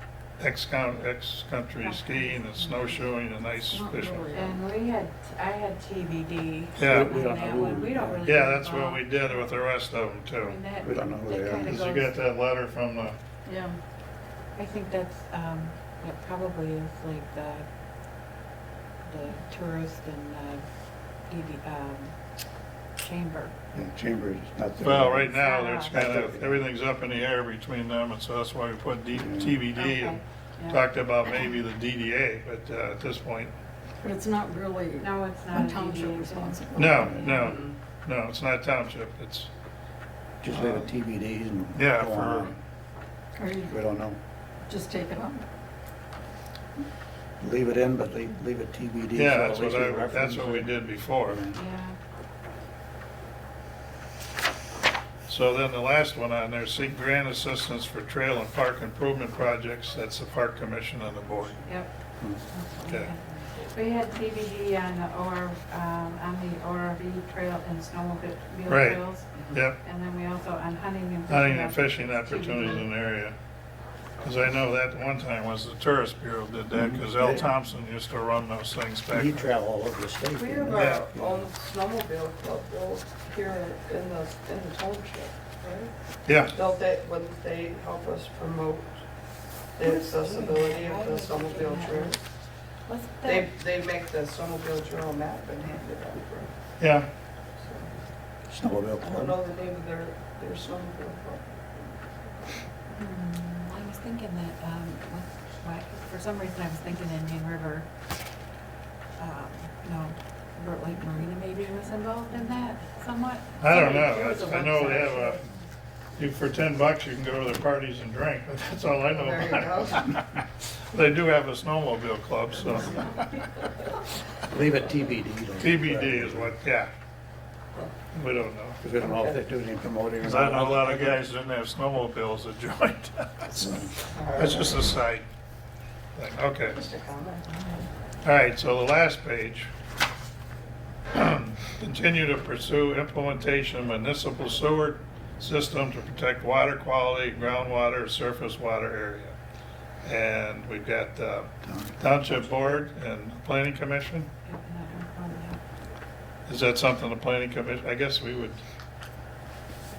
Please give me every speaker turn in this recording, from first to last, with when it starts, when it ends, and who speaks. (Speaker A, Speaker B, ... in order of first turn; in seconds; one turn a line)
Speaker A: 0.4-4.3
Speaker B: 1.8-3.1
Speaker C: 3.5-4.6
Speaker B: 4.3-9.5
Speaker A: 6.8-7.2
Speaker D: 6.8-8.3
Speaker A: 8.2-10.6
Speaker B: 10.3-12.2
Speaker D: 10.8-11.8
Speaker A: 11.6-13.2
Speaker C: 13.5-13.8
Speaker B: 14.6-17.7
Speaker B: 19.1-20.6
Speaker B: 21.3-22.2
Speaker B: 23.0-23.5
Speaker D: 23.7-26.6
Speaker A: 24.8-33.5
Speaker B: 25.2-26.0
Speaker D: 29.1-29.6
Speaker B: 29.7-30.8
Speaker C: 34.0-37.1
Speaker B: 35.0-37.5
Speaker A: 36.7-39.5
Speaker D: 36.9-37.4
Speaker E: 37.3-37.8
Speaker D: 40.4-42.6
Speaker A: 40.5-40.9
Speaker A: 41.7-42.6
Speaker C: 43.3-43.8
Speaker D: 43.7-44.2
Speaker C: 44.7-45.5
Speaker D: 47.4-51.6
Speaker A: 49.1-51.4
Speaker B: 51.5-52.0
Speaker A: 55.3-61.6
Speaker B: 61.7-61.9
Speaker D: 62.2-62.4
Speaker B: 62.5-72.9
Speaker A: 68.7-69.8
Speaker A: 71.3-73.4
Speaker A: 74.2-79.5
Speaker D: 76.7-77.5
Speaker D: 79.1-81.4
Speaker E: 80.3-89.0
Speaker A: 80.7-81.1
Speaker A: 86.2-86.5
Speaker E: 89.8-92.2
Speaker B: 89.8-92.2
Speaker B: 92.9-93.5
Speaker E: 93.2-96.5
Speaker A: 96.8-97.1
Speaker E: 97.6-97.9
Speaker D: 98.5-99.4
Speaker E: 99.0-102.6
Speaker B: 102.9-107.9
Speaker B: 109.2-115.6
Speaker A: 113.6-115.5
Speaker A: 116.2-123.2
Speaker E: 119.0-120.1
Speaker D: 124.4-126.5
Speaker A: 125.6-126.9
Speaker A: 128.1-128.8
Speaker D: 128.8-131.2
Speaker E: 129.0-129.4
Speaker A: 130.2-135.2
Speaker D: 133.6-133.9
Speaker E: 134.1-134.8
Speaker A: 136.2-136.8
Speaker E: 136.7-137.5
Speaker B: 137.5-137.8
Speaker A: 138.2-139.7
Speaker A: 141.1-149.3
Speaker A: 150.0-154.3
Speaker D: 151.6-152.0
Speaker B: 154.4-155.6
Speaker A: 156.5-158.6